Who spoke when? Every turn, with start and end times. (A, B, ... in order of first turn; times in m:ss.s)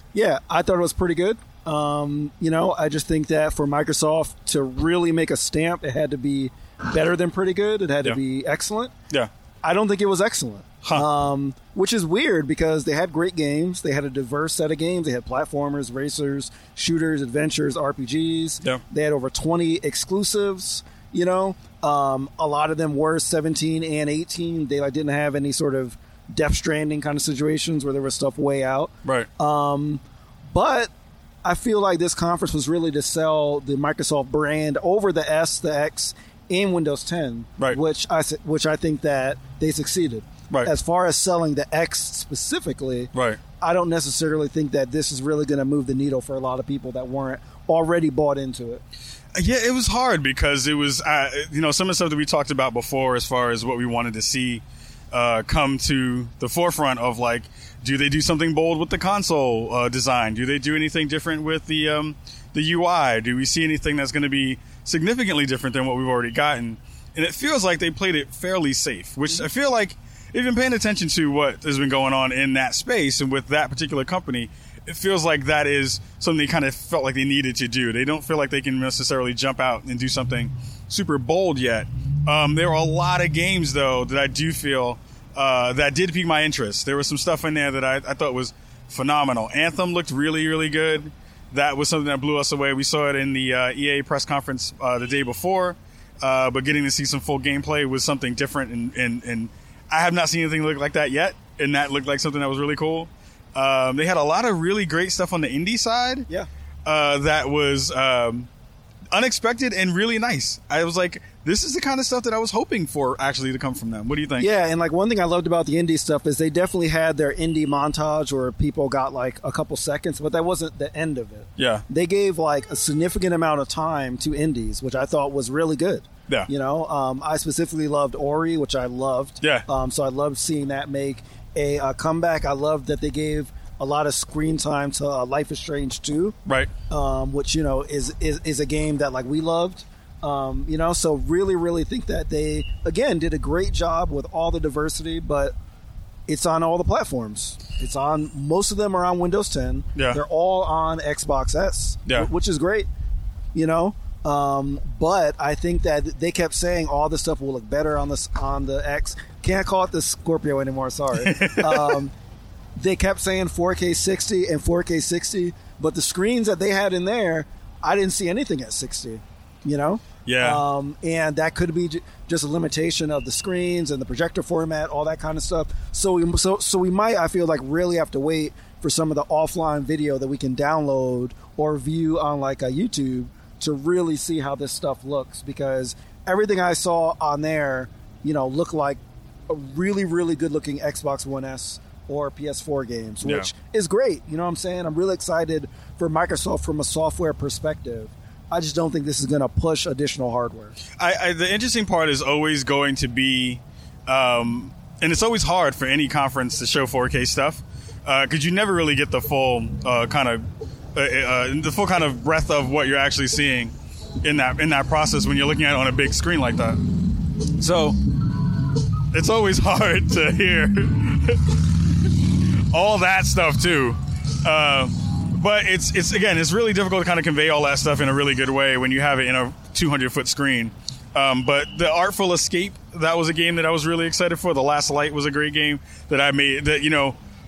0:00.1-0:08.9 A
0:09.6-0:30.9 A
0:31.4-0:48.8 A
0:43.1-0:43.4 B
0:49.3-1:46.3 B
1:46.8-1:48.5 B
1:49.1-1:54.5 B
1:54.4-2:16.4 A
2:01.6-2:01.8 B
2:16.9-2:25.5 A
2:26.3-2:32.9 A
2:29.9-2:30.2 B
2:33.5-2:42.1 A
2:41.1-2:42.0 B
2:42.8-3:20.8 A
2:50.2-2:50.6 B
3:13.2-3:13.5 B
3:21.0-3:30.4 B
3:30.9-3:36.8 B
3:37.4-3:57.2 B